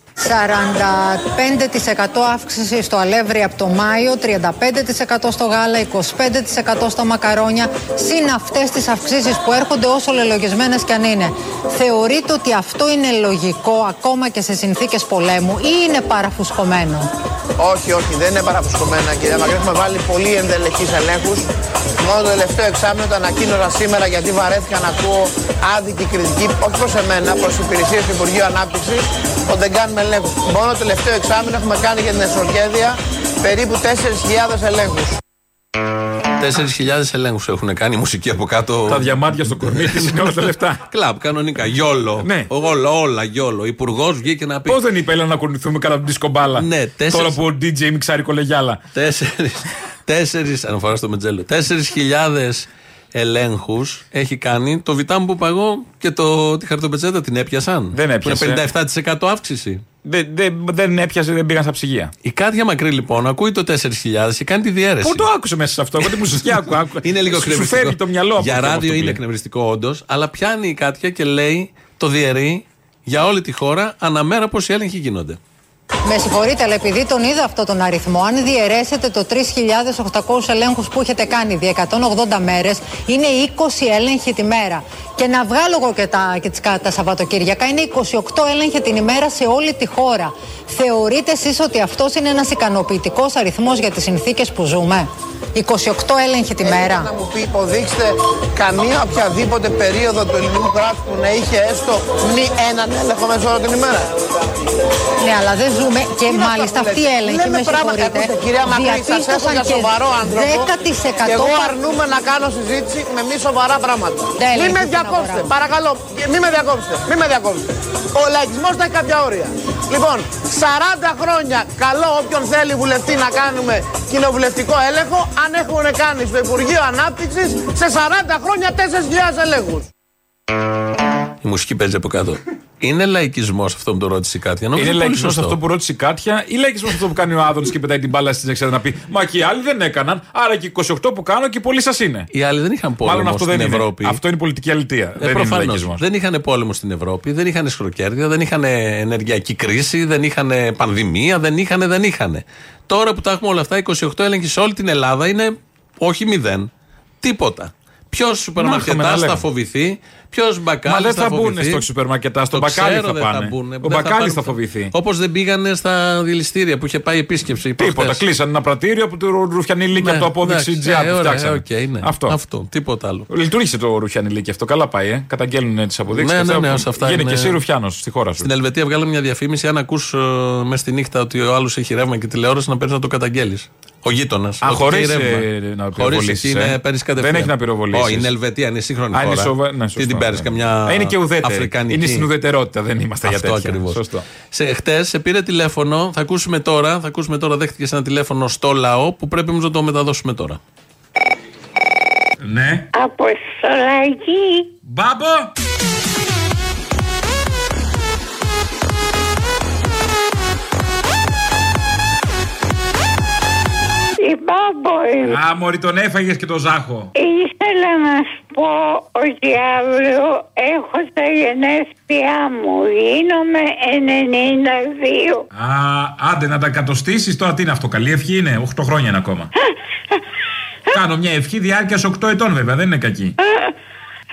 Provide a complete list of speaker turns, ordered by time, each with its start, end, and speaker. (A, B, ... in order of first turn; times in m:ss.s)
0:00.2-0:17.1 A
0:17.6-0:21.5 B
0:22.0-0:35.2 B
0:36.4-0:44.8 C
0:38.9-0:40.8 D
0:42.2-0:42.5 D
0:44.7-0:48.8 D
0:46.6-0:47.4 C
0:48.9-0:59.8 C
0:57.9-0:58.6 D
1:00.0-1:02.1 D
1:02.2-1:05.3 C
1:05.0-1:09.2 D
1:06.0-1:15.4 C
1:16.1-1:37.1 A
1:36.6-1:44.1 B
1:45.2-1:51.7 A
1:46.2-2:09.9 B
1:54.4-1:55.5 A
2:11.4-2:15.6 C
2:14.8-2:22.3 D
2:22.3-2:24.2 C
2:23.0-2:26.0 D
2:25.2-2:36.7 C
2:37.2-2:41.8 C
2:38.6-2:39.4 D
2:40.8-2:44.9 D
2:42.5-2:48.2 C
2:47.8-2:52.4 D
2:50.0-2:53.3 C
2:53.3-2:58.5 D
2:56.1-2:57.6 C
2:58.4-3:12.3 C
3:04.6-3:08.3 D
3:09.1-3:14.2 D
3:13.2-3:20.6 C
3:22.4-3:22.9 D
3:22.9-3:24.7 E
3:24.8-3:25.5 D
3:34.2-3:35.4 E
3:35.2-3:37.1 D
3:37.2-3:45.4 E
3:45.5-3:49.5 D
3:50.9-3:53.4 D